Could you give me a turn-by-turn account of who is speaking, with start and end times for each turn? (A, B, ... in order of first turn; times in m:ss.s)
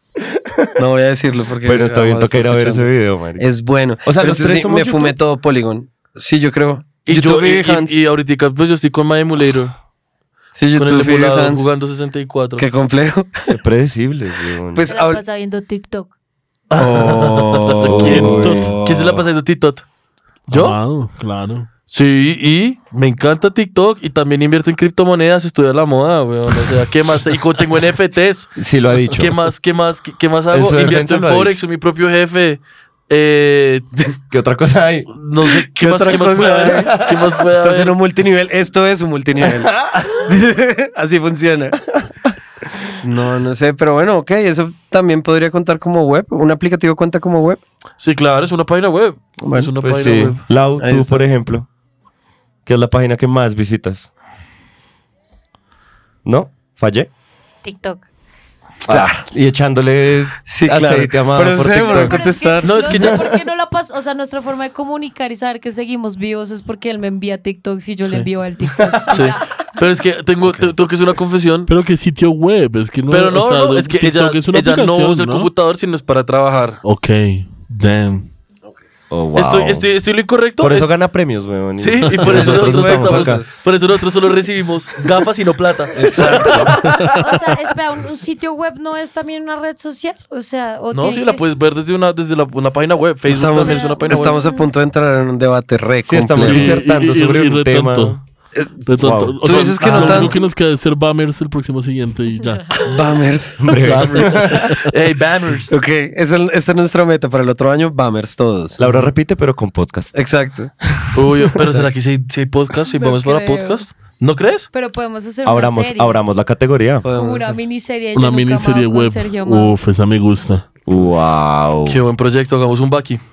0:00.2-0:00.8 A
0:00.8-0:08.0 B
0:01.6-0:03.5 A
0:04.0-0:05.2 A
0:07.1-0:09.8 C
0:10.6-0:11.7 B
0:10.8-0:12.7 C
0:12.6-0:13.6 B
0:13.5-0:14.9 A
0:14.7-0:15.2 B
0:14.8-0:16.1 D
0:16.7-0:19.8 C
0:16.8-0:19.2 B
0:17.8-0:18.7 A
0:20.5-0:21.7 E
0:20.5-0:20.8 C
0:21.9-0:28.6 C
0:28.6-0:29.4 A
0:29.1-0:33.9 C
0:30.5-0:31.6 A
0:34.3-0:35.1 A
0:35.2-0:38.0 C
0:35.5-0:37.0 B
0:36.6-0:37.3 A
0:37.5-0:41.9 B
0:39.4-0:40.1 A
0:43.0-0:47.6 B
0:48.0-0:50.4 C
0:49.4-0:49.7 B
0:49.8-0:51.7 A
0:50.8-0:51.2 B
0:52.7-0:54.1 A
0:56.2-0:57.1 A
0:57.6-0:58.1 D
0:58.9-1:02.2 A
0:58.9-0:59.2 B
1:00.5-1:03.1 B
1:01.8-1:09.5 D
1:02.6-1:03.2 C
1:03.0-1:03.4 A
1:08.8-1:09.2 A
1:09.1-1:11.7 C
1:11.7-1:15.5 E
1:13.1-1:16.8 C
1:16.8-1:18.3 E
1:19.1-1:19.9 A
1:19.4-1:21.0 C
1:20.6-1:23.5 A
1:21.8-1:26.7 C
1:22.2-1:23.5 B
1:25.9-1:26.8 B
1:26.7-1:27.2 E
1:27.0-1:31.4 D
1:30.9-1:34.4 C
1:33.3-1:36.8 B
1:33.6-1:34.7 D
1:36.1-1:38.2 A
1:36.3-1:38.2 E
1:38.6-1:38.8 B
1:38.9-1:42.8 E
1:39.0-1:39.4 A
1:39.4-1:40.4 B
1:39.8-1:40.3 C
1:39.9-1:40.2 A
1:42.4-1:42.8 D
1:42.8-1:44.3 B
1:43.6-1:44.8 A
1:43.8-1:45.7 C
1:45.7-1:48.8 B
1:48.8-1:50.1 A
1:50.2-1:50.7 B
1:51.1-1:54.7 C
1:53.0-1:53.8 D
1:54.7-1:56.2 D
1:55.4-1:57.1 A
1:57.0-1:57.6 B
1:57.1-1:59.8 D
1:58.2-2:00.7 E
2:00.9-2:02.0 A
2:01.9-2:03.2 C